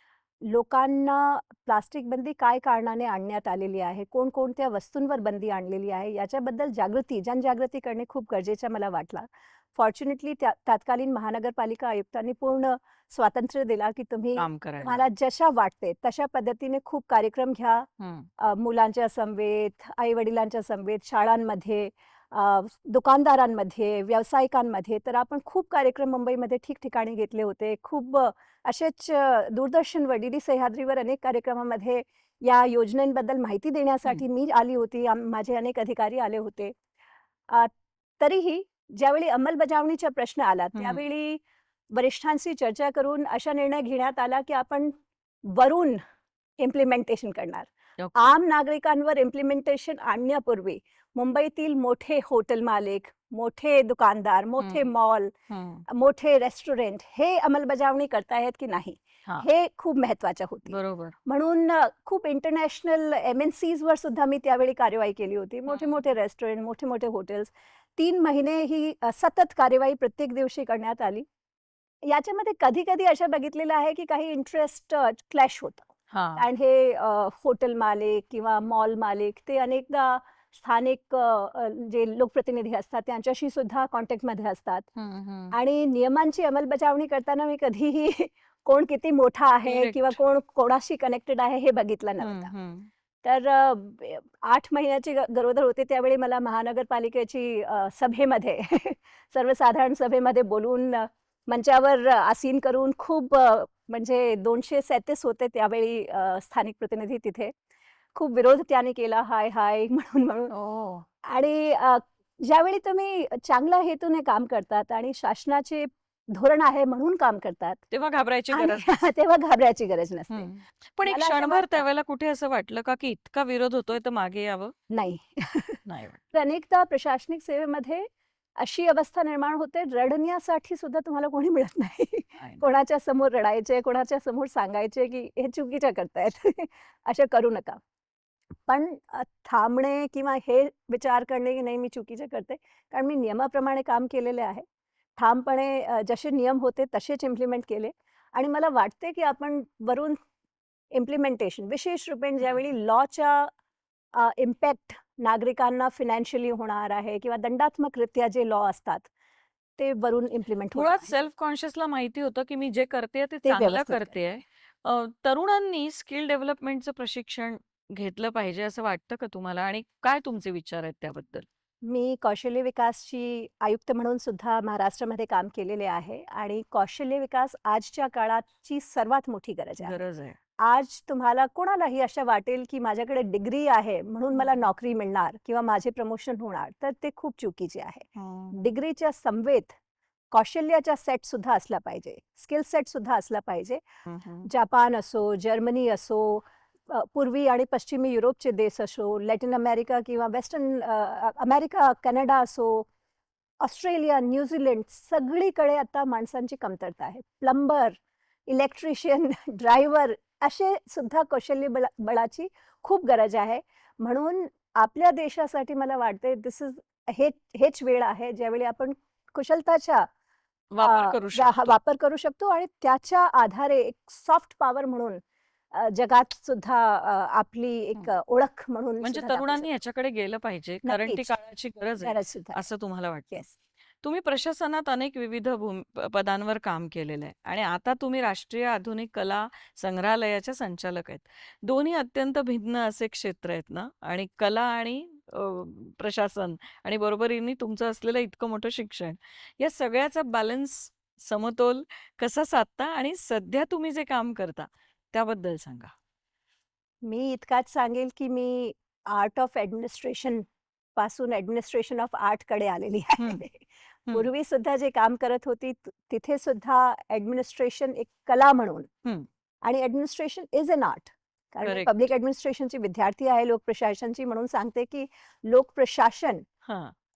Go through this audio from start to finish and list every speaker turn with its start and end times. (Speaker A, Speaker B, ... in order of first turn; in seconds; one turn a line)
Speaker A: 0.4-17.9
Speaker B: 14.4-15.0
Speaker B: 18.0-18.3
Speaker A: 18.4-36.8
Speaker A: 37.5-41.4
Speaker B: 40.8-41.0
Speaker A: 41.9-44.9
Speaker A: 45.5-46.0
Speaker A: 46.6-55.3
Speaker B: 48.0-48.3
Speaker B: 54.6-54.9
Speaker B: 55.5-55.8
Speaker A: 55.9-71.2
Speaker B: 60.7-61.1
Speaker B: 65.7-66.0
Speaker A: 72.0-84.9
Speaker B: 76.1-76.5
Speaker B: 85.0-85.5
Speaker A: 85.5-92.5
Speaker B: 89.7-90.2
Speaker B: 92.2-92.9
Speaker A: 93.2-107.5
Speaker A: 108.1-110.5
Speaker B: 110.5-111.0
Speaker A: 111.2-117.8
Speaker B: 117.9-119.0
Speaker A: 118.5-120.5
Speaker B: 120.3-124.7
Speaker A: 121.0-121.8
Speaker A: 124.9-125.8
Speaker B: 125.8-126.2
Speaker A: 126.3-137.8
Speaker A: 138.7-144.6
Speaker A: 145.2-150.2
Speaker A: 150.9-153.5
Speaker A: 154.2-159.1
Speaker A: 159.8-161.1
Speaker B: 160.7-171.4
Speaker A: 163.4-164.2
Speaker A: 171.8-180.0
Speaker B: 179.8-180.4
Speaker A: 180.6-189.7
Speaker B: 188.2-188.7
Speaker A: 190.3-193.8
Speaker B: 194.1-194.5
Speaker A: 194.4-202.9
Speaker A: 203.6-220.1
Speaker B: 220.7-221.8
Speaker A: 220.8-225.2
Speaker A: 225.7-229.7
Speaker B: 229.0-233.4
Speaker A: 230.8-231.3
Speaker A: 232.0-232.6
Speaker B: 234.0-255.9
Speaker A: 257.0-268.9
Speaker B: 263.2-263.4
Speaker A: 269.6-276.4
Speaker B: 271.6-272.0
Speaker B: 276.6-276.9